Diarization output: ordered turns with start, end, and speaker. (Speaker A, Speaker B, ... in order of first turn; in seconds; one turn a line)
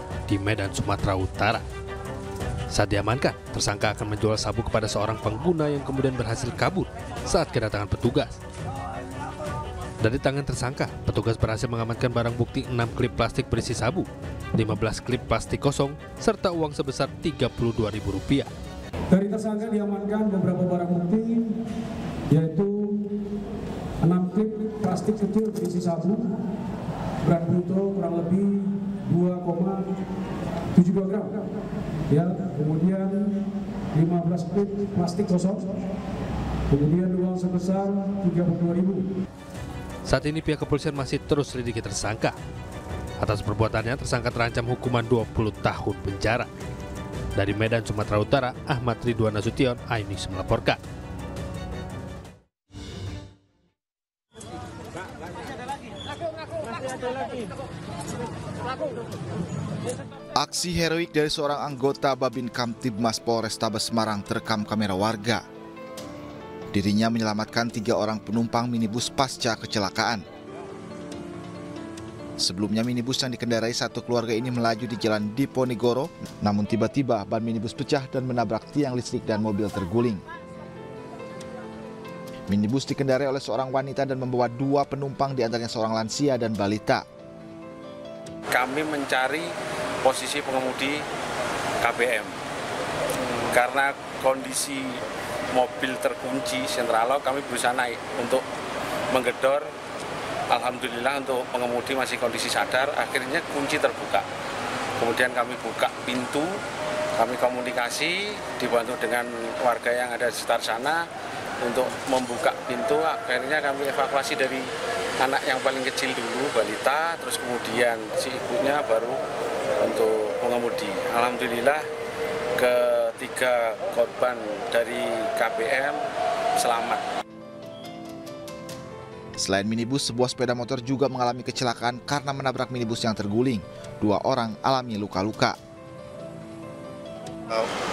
Speaker A: 0.3-1.6
Speaker A: 2.7-8.4
Speaker A: 10.0-18.5
Speaker B: 19.1-21.6
Speaker B: 22.3-23.2
Speaker B: 24.0-26.4
Speaker B: 27.2-29.9
Speaker B: 30.7-31.4
Speaker B: 32.1-33.4
Speaker B: 33.9-35.7
Speaker B: 36.7-39.0
Speaker A: 40.1-42.4
Speaker A: 43.2-46.5
Speaker A: 47.4-50.8
Speaker C: 60.4-65.4
Speaker C: 66.7-70.2
Speaker C: 72.4-80.2
Speaker C: 82.5-87.0
Speaker D: 88.5-89.5
Speaker D: 90.0-91.0
Speaker D: 91.8-92.3
Speaker D: 93.5-95.0
Speaker D: 95.5-98.4
Speaker D: 99.1-99.7
Speaker D: 100.5-104.2
Speaker D: 105.0-106.6
Speaker D: 107.2-111.0
Speaker D: 111.6-114.7
Speaker D: 115.2-119.2
Speaker D: 119.8-121.8
Speaker D: 122.6-126.0
Speaker D: 126.6-127.0
Speaker C: 129.4-135.6